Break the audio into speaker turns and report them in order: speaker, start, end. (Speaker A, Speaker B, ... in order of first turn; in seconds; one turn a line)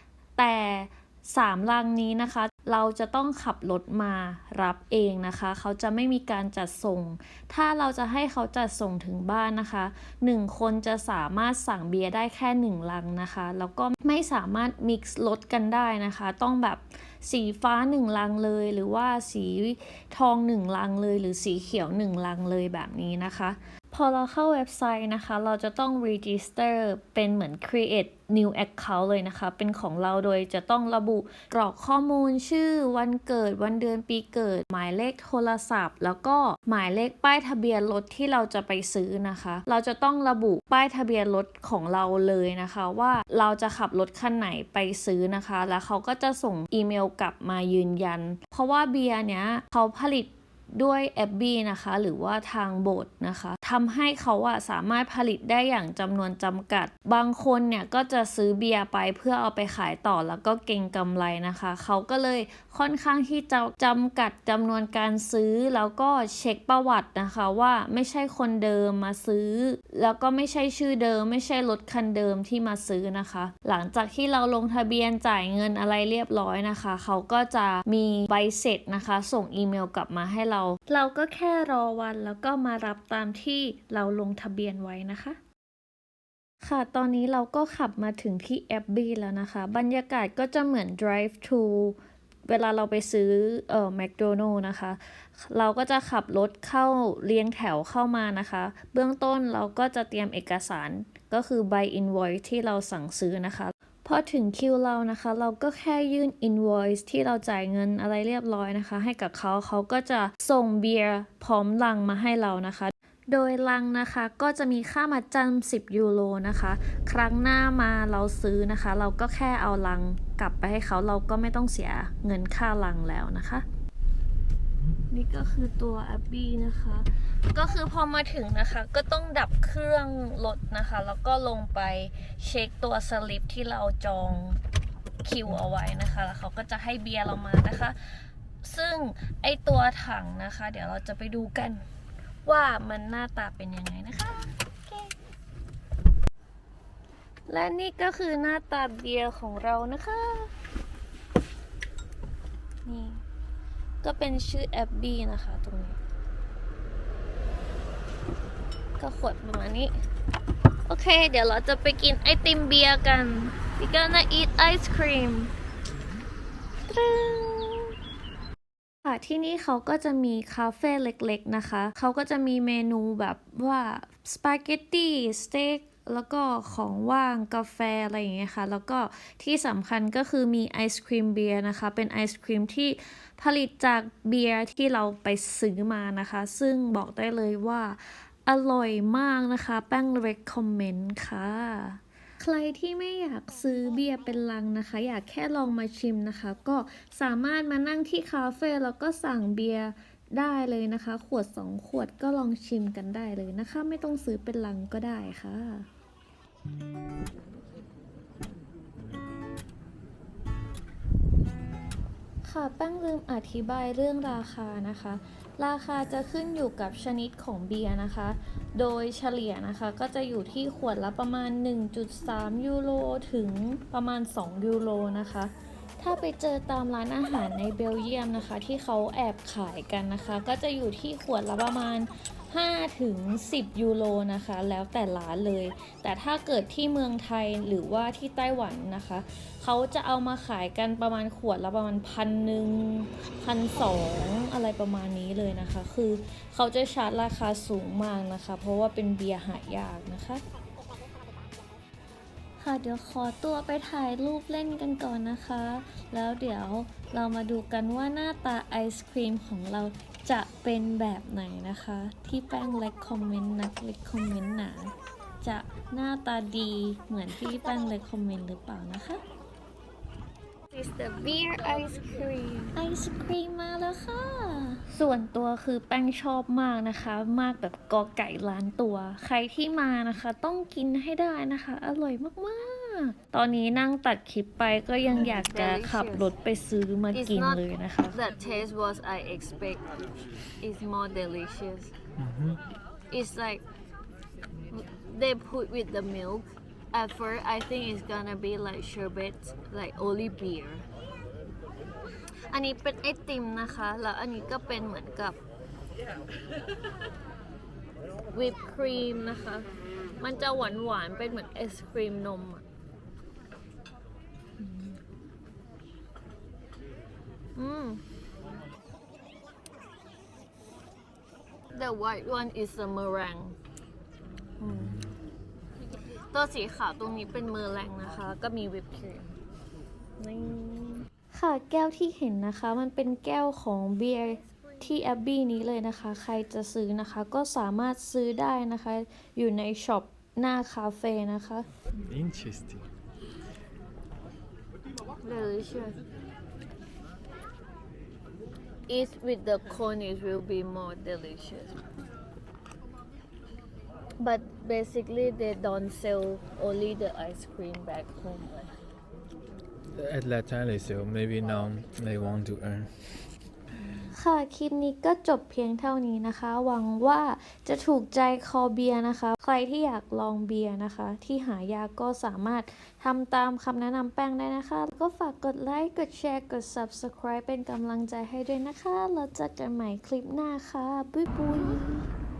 Speaker A: 0.4-85.4
Speaker A: 86.6-123.6
Speaker A: 125.1-134.6
Speaker A: 135.2-141.8
Speaker A: 142.4-145.1
Speaker A: 147.5-150.5
Speaker A: 152.8-153.2
Speaker A: 154.0-156.0
Speaker A: 159.0-159.9
Speaker A: 160.8-165.5
Speaker A: 166.9-167.9
Speaker A: 169.0-205.9
Speaker A: 212.4-250.4
Speaker A: 252.6-269.2
Speaker B: 270.7-272.7
Speaker A: 270.8-272.2
Speaker A: 272.7-288.2
Speaker B: 285.1-286.3
Speaker B: 287.1-287.6
Speaker B: 288.1-289.8
Speaker B: 290.6-291.9
Speaker C: 292.2-292.6
Speaker B: 293.1-293.6
Speaker B: 294.7-300.9
Speaker A: 302.5-305.4
Speaker B: 308.3-309.4
Speaker A: 309.2-309.6
Speaker A: 310.2-312.6
Speaker A: 314.6-314.9
Speaker A: 317.6-318.0
Speaker B: 321.7-322.2
Speaker A: 322.1-323.5
Speaker A: 324.6-325.0
Speaker C: 324.7-325.1
Speaker A: 326.4-329.2
Speaker B: 327.2-328.0
Speaker B: 328.8-329.1
Speaker A: 330.2-341.6
Speaker C: 342.0-342.9
Speaker B: 345.2-345.9
Speaker B: 348.9-351.8
Speaker B: 354.2-358.7
Speaker C: 359.9-363.0
Speaker A: 364.0-382.1